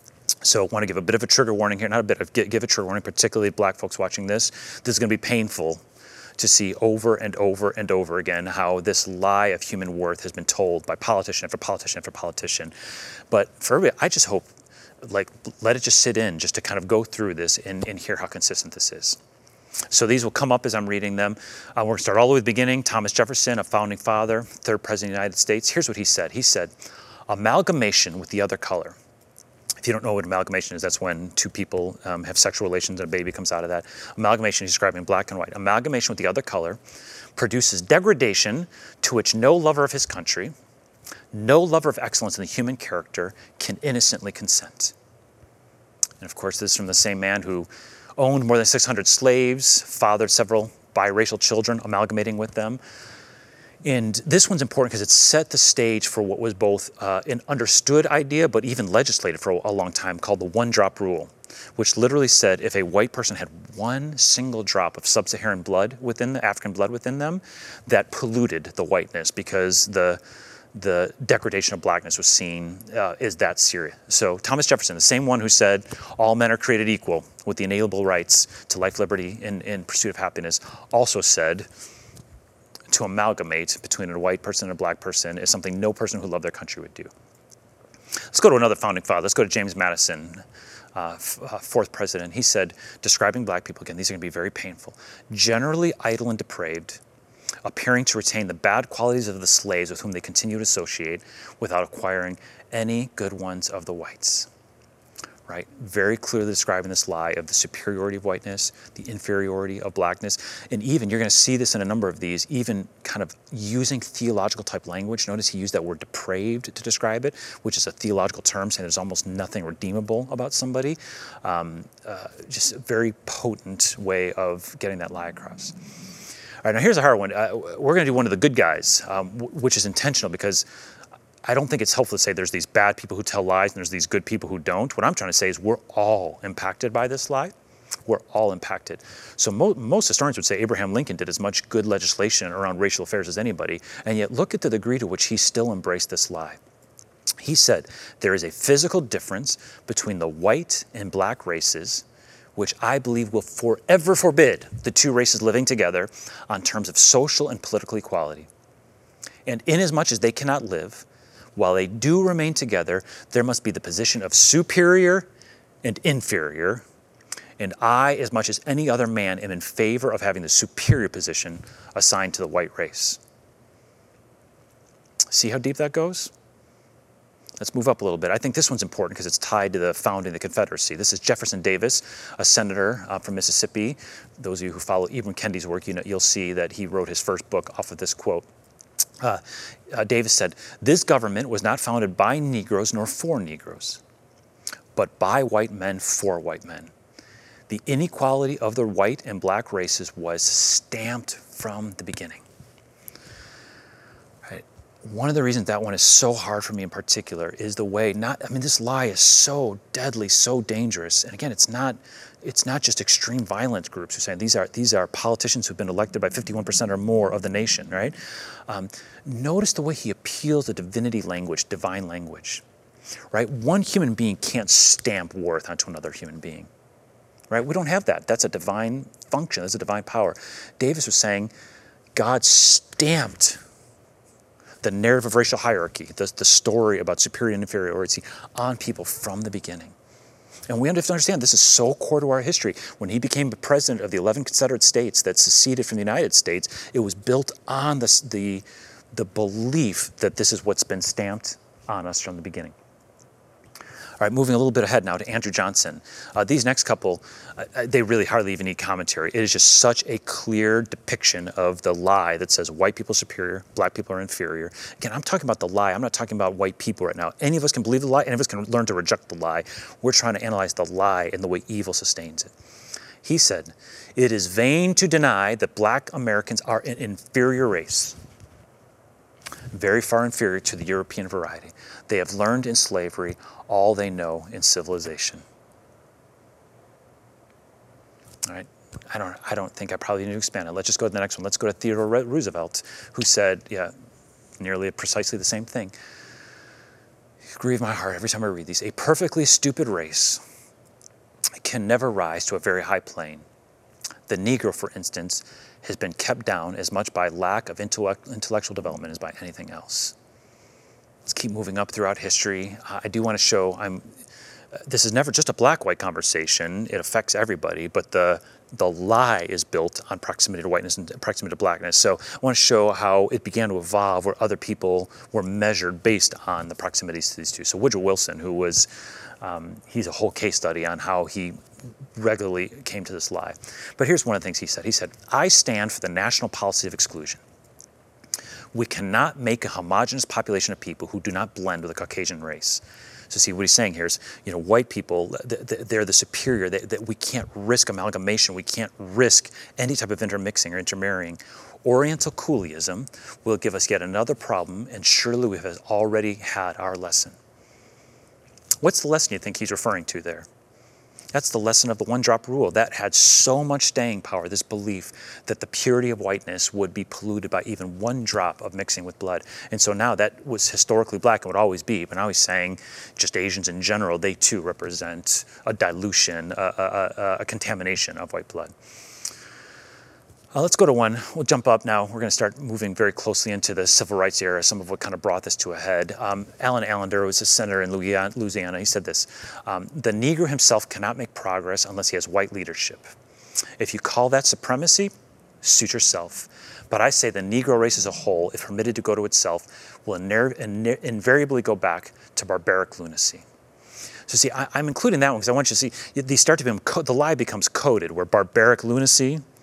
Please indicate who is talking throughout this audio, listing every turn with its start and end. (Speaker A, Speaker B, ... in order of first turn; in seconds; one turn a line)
Speaker A: 0.4-5.8
Speaker A: 6.4-12.7
Speaker A: 13.3-14.5
Speaker A: 15.0-19.2
Speaker A: 19.9-26.7
Speaker A: 27.3-29.0
Speaker A: 29.8-36.8
Speaker A: 37.4-40.5
Speaker A: 41.3-44.9
Speaker A: 46.2-52.8
Speaker A: 53.8-70.2
Speaker A: 70.7-81.7
Speaker A: 82.9-87.1
Speaker A: 88.3-90.4
Speaker A: 90.9-97.0
Speaker A: 97.6-104.5
Speaker A: 105.5-125.7
Speaker A: 126.6-130.7
Speaker A: 131.4-137.5
Speaker A: 138.1-146.6
Speaker A: 147.4-152.0
Speaker A: 152.6-158.5
Speaker A: 159.4-165.3
Speaker A: 165.8-166.8
Speaker A: 167.6-173.2
Speaker A: 175.3-176.3
Speaker A: 177.6-188.5
Speaker A: 189.2-194.0
Speaker A: 194.9-196.9
Speaker A: 197.7-202.4
Speaker A: 204.4-218.2
Speaker A: 218.7-222.6
Speaker A: 223.3-226.7
Speaker A: 227.5-231.5
Speaker A: 232.1-233.6
Speaker A: 234.8-239.9
Speaker A: 240.7-252.7
Speaker A: 254.2-272.5
Speaker A: 273.2-278.2
Speaker A: 279.7-285.4
Speaker A: 288.4-293.9
Speaker A: 294.6-295.9
Speaker A: 297.5-300.4
Speaker A: 301.6-303.4
Speaker A: 304.3-310.1
Speaker A: 311.2-314.1
Speaker A: 314.7-328.9
Speaker A: 329.4-331.6
Speaker A: 332.1-337.4
Speaker A: 338.7-357.4
Speaker A: 358.8-360.5
Speaker A: 361.3-378.7
Speaker A: 380.5-393.1
Speaker A: 393.8-403.4
Speaker A: 404.3-409.4